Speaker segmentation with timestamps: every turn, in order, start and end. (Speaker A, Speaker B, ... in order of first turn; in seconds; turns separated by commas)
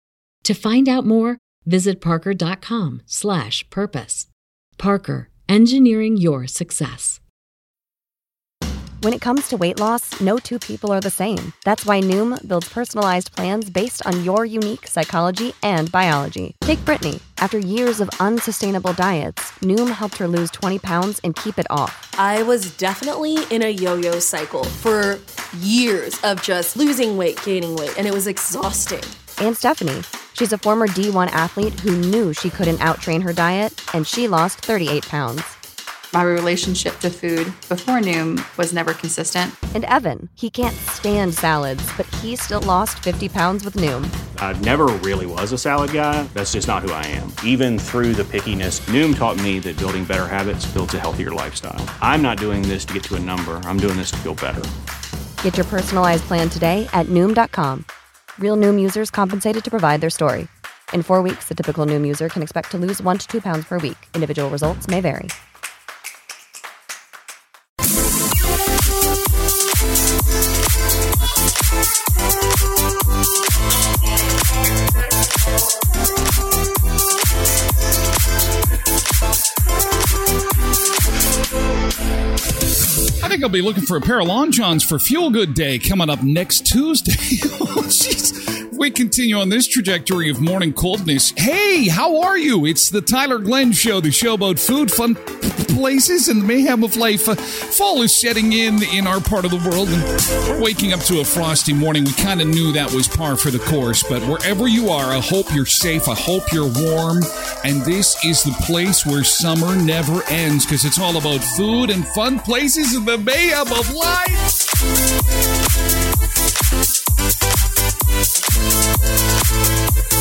Speaker A: 0.4-7.2, Speaker B: 9.0-22.0, Speaker C: 22.2-29.1, Speaker B: 29.4-35.5, Speaker D: 36.1-39.6, Speaker B: 39.7-44.1, Speaker E: 44.4-54.7, Speaker B: 55.4-57.9, Speaker B: 58.4-65.3, Speaker F: 83.2-114.5